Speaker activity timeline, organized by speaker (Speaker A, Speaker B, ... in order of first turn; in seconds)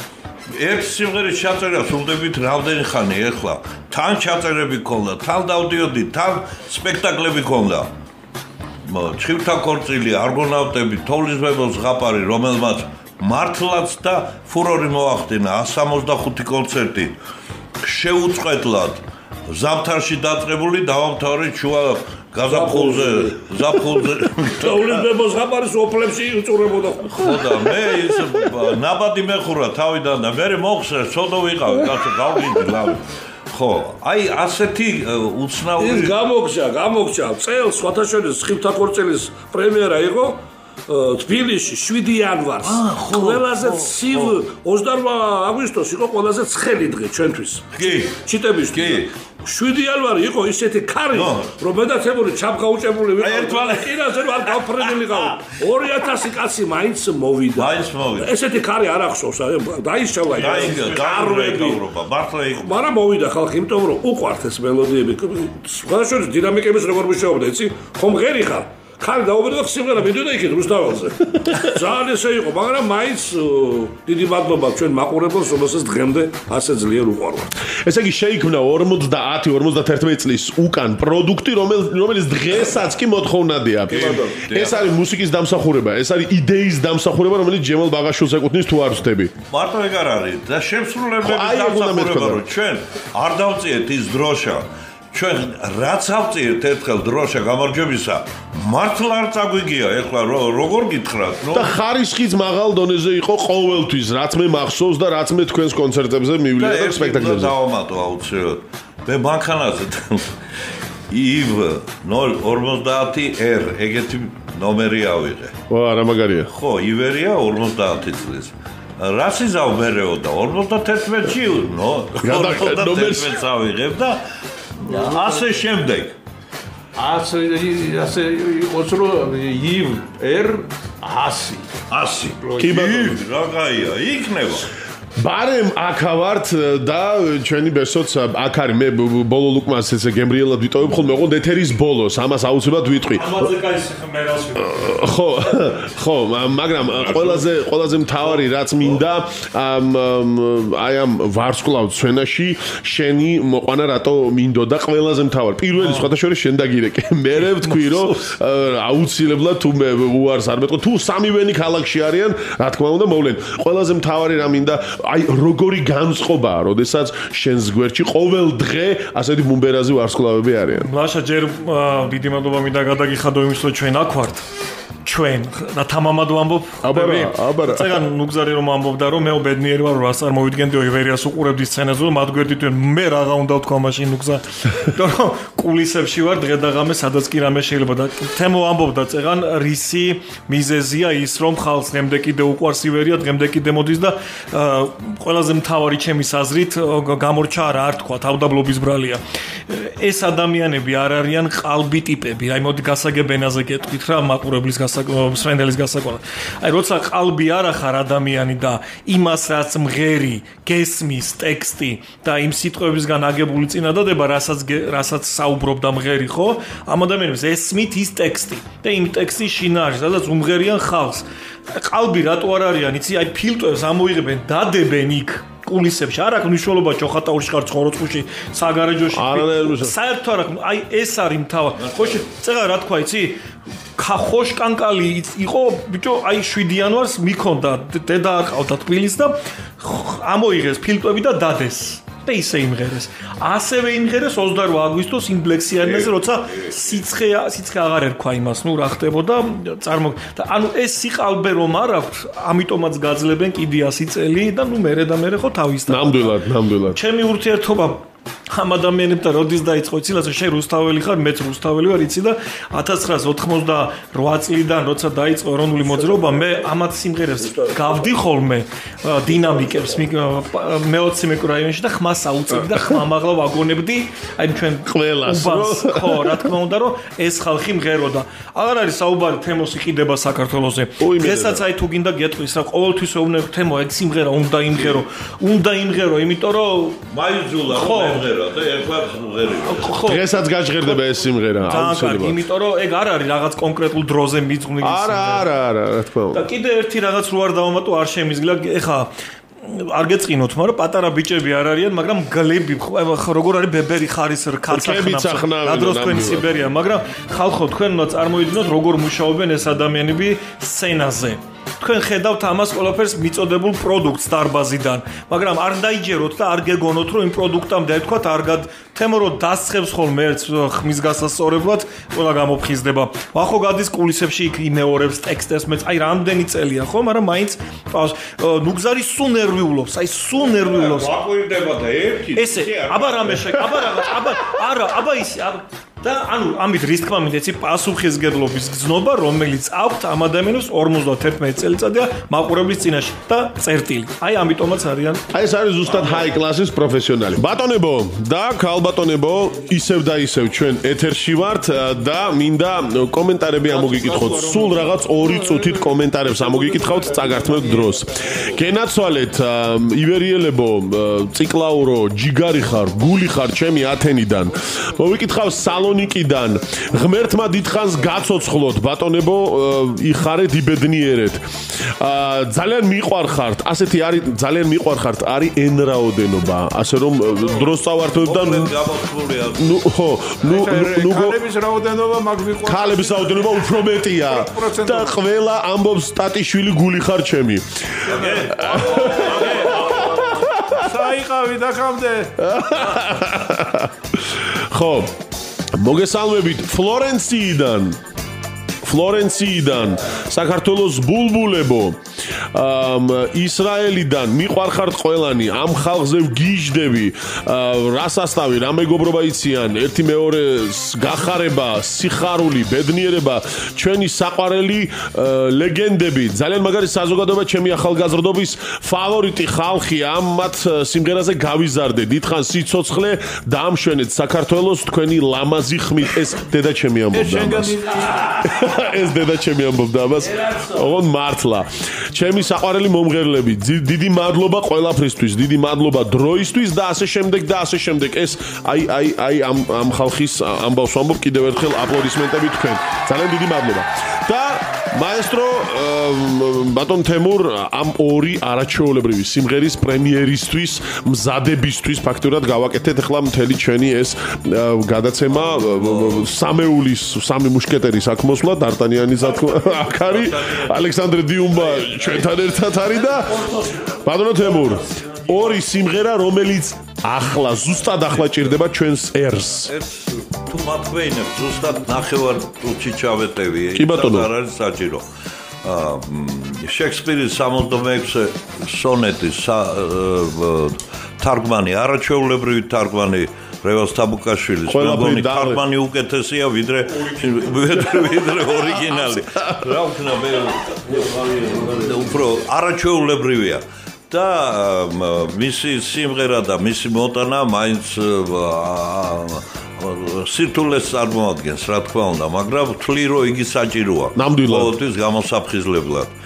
Speaker A: 0.5-7.9, 8.9-17.2, 17.8-25.0, 27.1-36.1, 42.6-44.4, 47.7-48.1, 48.7-49.1, 51.1-51.5, 53.2-55.3, 57.5-58.3, 60.3-62.9, 83.9-85.0, 89.5-101.7, 106.6-110.3, 111.1-115.5, 116.5-124.2, 124.8-126.1, 131.9-134.7, 231.8-232.2, 245.8-247.0, 287.1-289.9, 330.5-333.6, 345.8-346.3, 378.1-379.7, 388.1-390.0, 455.3-456.3, 459.2-460.9, 461.4-462.6, 467.9-468.6, 469.6-475.0, 475.6-491.0, 491.6-506.1
Speaker B: 22.5-23.5, 24.6-27.4, 35.8-61.8, 62.6-77.5, 265.8-266.5, 267.4-268.2, 269.3-270.0
Speaker C: 77.8-89.3, 91.2-92.5, 101.5-107.5, 115.7-116.5, 122.2-123.3, 132.6-133.2, 135.2-143.4, 144.7-170.9, 176.8-178.0, 229.1-229.9, 255.9-257.0, 274.9-276.5, 281.0-281.6, 290.0-292.4, 294.8-296.4, 304.7-306.6, 345.3-371.4, 372.0-378.8, 379.6-381.4, 382.6-387.6, 388.5-389.3, 390.3-390.8, 392.4-395.1, 395.7-398.0, 398.8-402.0, 402.5-469.7, 473.7-474.3, 484.7-485.6, 504.1-504.7
Speaker D: 124.9-125.5, 127.0-131.7, 132.4-132.7, 355.3-357.9, 380.4-383.5, 384.2-385.2, 388.1-392.3, 427.1-428.8
Speaker E: 143.1-145.0, 155.8-156.1, 157.4-158.2, 170.8-174.4, 175.0-233.4, 233.9-287.0, 287.7-288.3, 289.6-290.3, 291.6-295.5, 296.3-299.1, 299.6-331.1, 332.4-345.2, 353.6-355.1, 463.4-465.6